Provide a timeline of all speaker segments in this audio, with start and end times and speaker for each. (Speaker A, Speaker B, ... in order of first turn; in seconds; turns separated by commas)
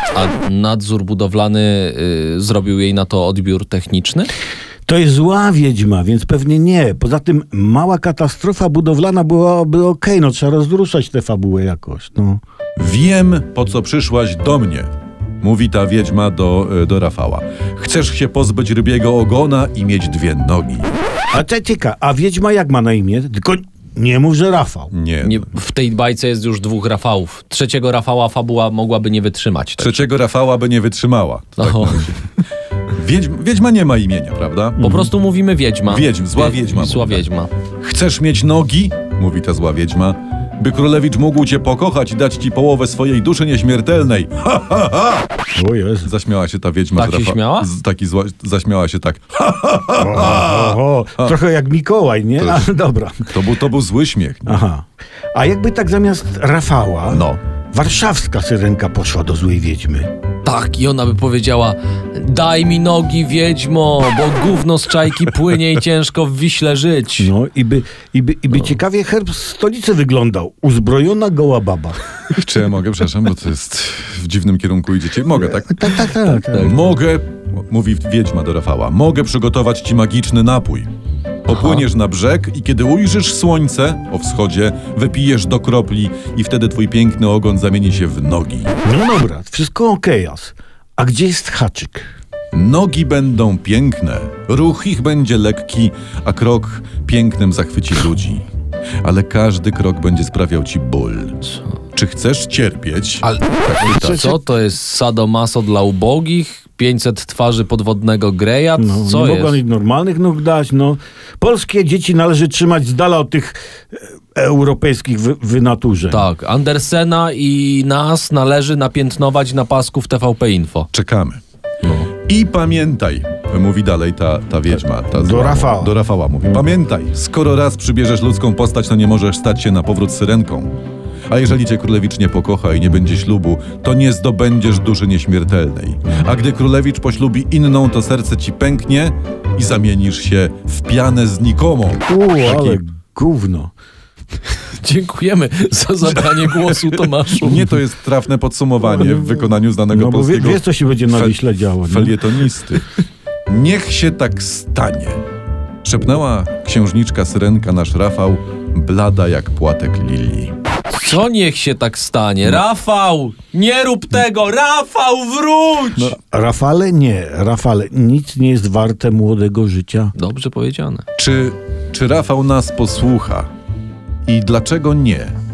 Speaker A: 0.1-4.3, Speaker B: 4.9-12.4, Speaker C: 12.8-14.9, Speaker C: 15.4-20.9, Speaker B: 21.3-24.9, Speaker C: 24.9-25.5, Speaker A: 25.2-30.1, Speaker C: 29.8-32.2, Speaker A: 31.6-32.1, Speaker C: 32.9-34.9, Speaker A: 34.8-37.5, Speaker B: 34.8-35.1, Speaker C: 35.9-37.2, Speaker C: 37.8-45.2, Speaker B: 45.5-46.1, Speaker C: 46.0-51.3, Speaker A: 47.0-47.7, Speaker B: 50.0-53.3, Speaker C: 53.3-54.6, Speaker B: 54.5-60.1, Speaker C: 57.1-57.4, Speaker A: 60.4-67.3, Speaker B: 67.2-72.0, Speaker C: 72.3-80.9, Speaker B: 75.4-76.8, Speaker C: 81.5-88.7, Speaker A: 81.5-81.9, Speaker B: 88.8-92.1, Speaker C: 92.5-98.4, Speaker C: 99.0-101.4, Speaker C: 101.9-103.2, Speaker A: 103.2-109.6, Speaker B: 103.8-104.4, Speaker B: 108.8-116.2, Speaker A: 116.1-120.9, Speaker C: 120.9-121.4, Speaker A: 121.8-122.1, Speaker C: 122.2-130.7, Speaker B: 125.1-126.7, Speaker C: 131.3-142.8, Speaker B: 142.1-143.7, Speaker A: 144.8-147.8, Speaker C: 147.4-152.9, Speaker B: 148.9-152.3, Speaker C: 153.5-155.2, Speaker C: 155.8-160.5, Speaker A: 160.9-166.2, Speaker B: 166.1-170.1, Speaker A: 170.1-171.0, Speaker C: 171.2-173.5, Speaker C: 174.2-175.3